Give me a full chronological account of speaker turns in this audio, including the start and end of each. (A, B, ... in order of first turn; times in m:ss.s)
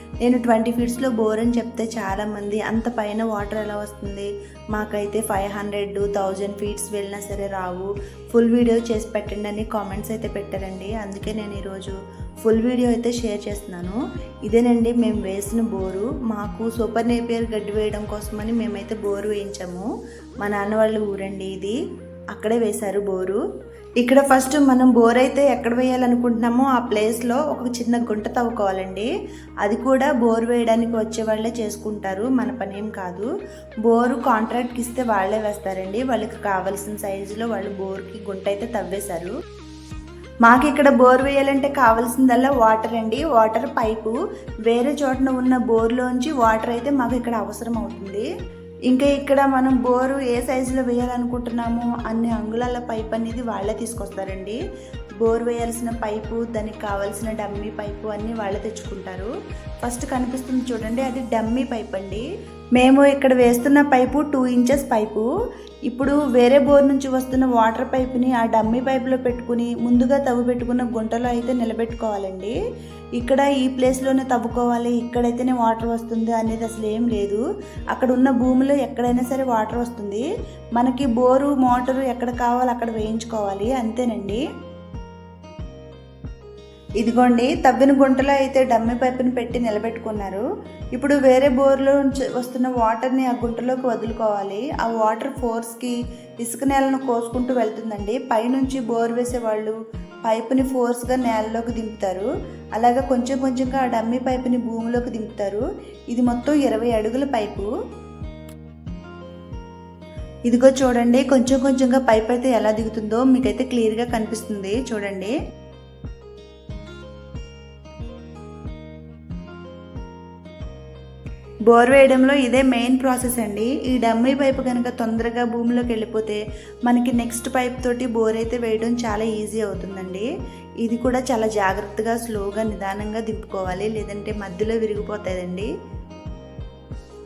0:00.2-0:19.9 A
0:20.4-0:21.8 A
0:22.3-0:23.4 A
0:24.0-0:29.1 A
0:29.6-0:33.3 A
0:33.8-0:39.3 A
0:40.4-0:48.3 A
0:48.9-0:54.6 A
0:55.2-0:59.3 A
0:59.8-1:05.3 A
1:05.9-1:12.6 A
1:13.2-1:24.4 A
1:27.0-1:30.4 A
1:31.0-1:47.7 A
1:50.5-1:55.4 A
2:01.7-2:10.3 A
2:10.8-2:15.7 A